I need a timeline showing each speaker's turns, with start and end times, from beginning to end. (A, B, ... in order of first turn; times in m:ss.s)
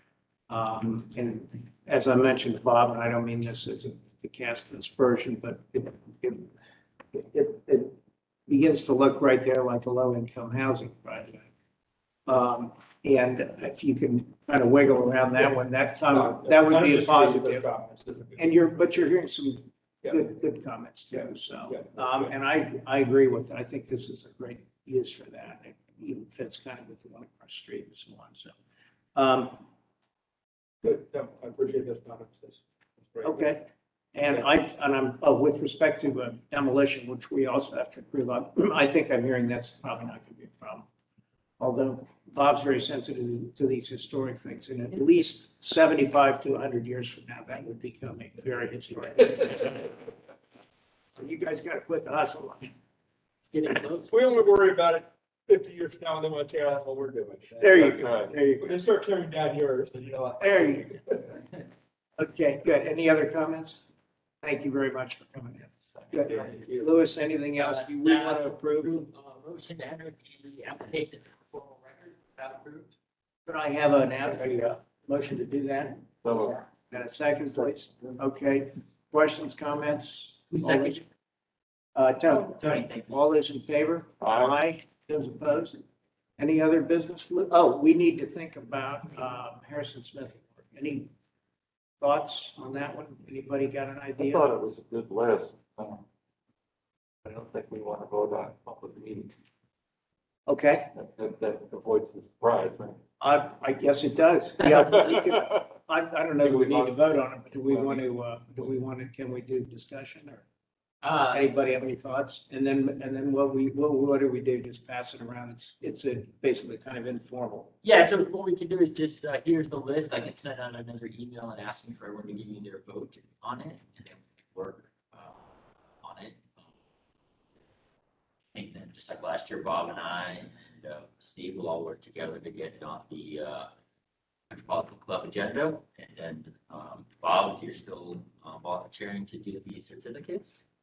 0:00.5-0:06.5 A
0:07.1-0:08.0 A
0:08.5-0:11.5 A
0:12.3-0:17.6 A
0:16.1-0:18.6 B
0:18.4-0:28.6 A
0:21.6-0:22.3 B
0:29.1-0:29.6 A
0:30.8-0:33.5 B
0:33.2-0:40.9 A
0:41.6-0:50.0 A
0:51.1-0:52.7 A
0:53.5-0:54.2 C
0:54.1-0:57.9 B
0:57.6-0:58.7 A
0:57.8-0:58.3 D
0:58.6-1:01.3 B
1:00.4-1:00.9 A
1:02.2-1:03.8 A
1:04.4-1:09.1 A
1:06.0-1:06.8 C
1:07.6-1:12.9 C
1:13.4-1:16.0 A
1:16.2-1:16.6 D
1:16.9-1:21.0 A
1:20.5-1:21.0 C
1:21.9-1:25.8 A
1:22.4-1:23.2 C
1:24.2-1:24.6 D
1:26.4-1:31.1 A
1:32.0-1:34.5 A
1:34.2-1:36.0 D
1:37.2-1:39.3 D
1:40.5-1:40.9 A
1:40.9-1:43.0 D
1:43.2-1:50.4 A
1:44.8-1:45.2 D
1:46.4-1:48.1 D
1:51.0-1:51.5 C
1:51.3-1:57.7 A
1:57.8-2:05.5 C
2:06.0-2:06.7 C
2:08.5-2:13.7 C
2:14.5-2:20.6 C